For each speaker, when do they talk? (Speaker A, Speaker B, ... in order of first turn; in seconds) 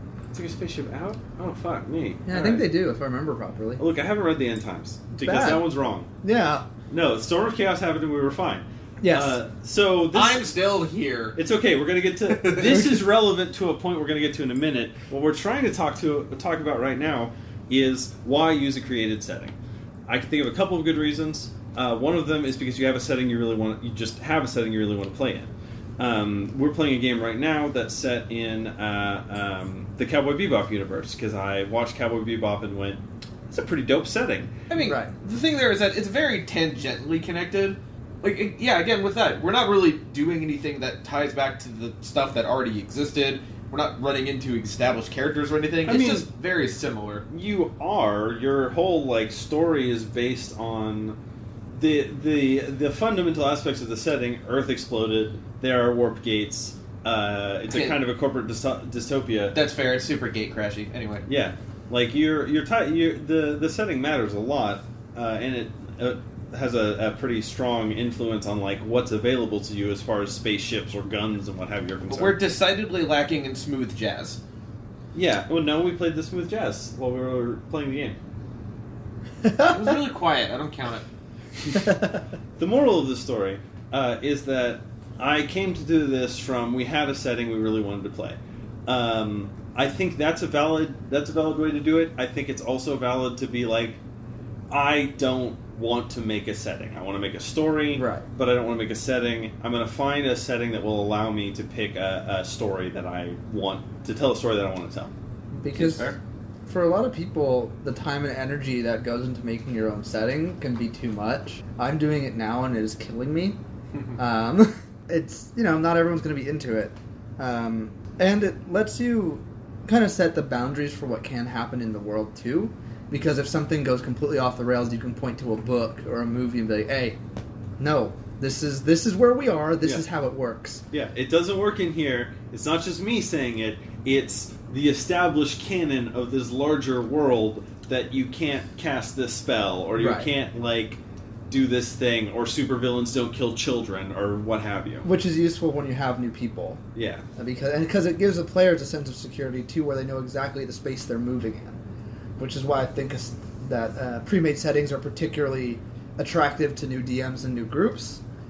Speaker A: 0.3-2.7, 3.8-6.1, 6.9-10.5, 11.3-19.5, 20.1-34.5, 45.8-46.2, 47.3-51.2, 51.7-59.6, 61.2-72.4, 75.1-78.2, 82.6-94.0, 94.7-105.1, 130.9-145.1, 146.9-147.2
Speaker B: 2.3-3.8, 5.2-5.6, 6.2-6.7, 9.0-9.4, 12.7-13.0, 34.8-35.1, 79.4-80.0, 81.8-82.2, 98.0-98.2, 105.5-106.1, 106.7-113.6, 114.2-127.2, 127.8-130.8, 140.0-140.3, 145.0-146.8, 147.3-151.8, 152.4-158.2
Speaker C: 10.1-11.4, 12.3-12.8, 34.7-47.2, 57.7-58.0, 59.5-61.2, 72.1-74.4, 79.6-81.0, 105.7-106.2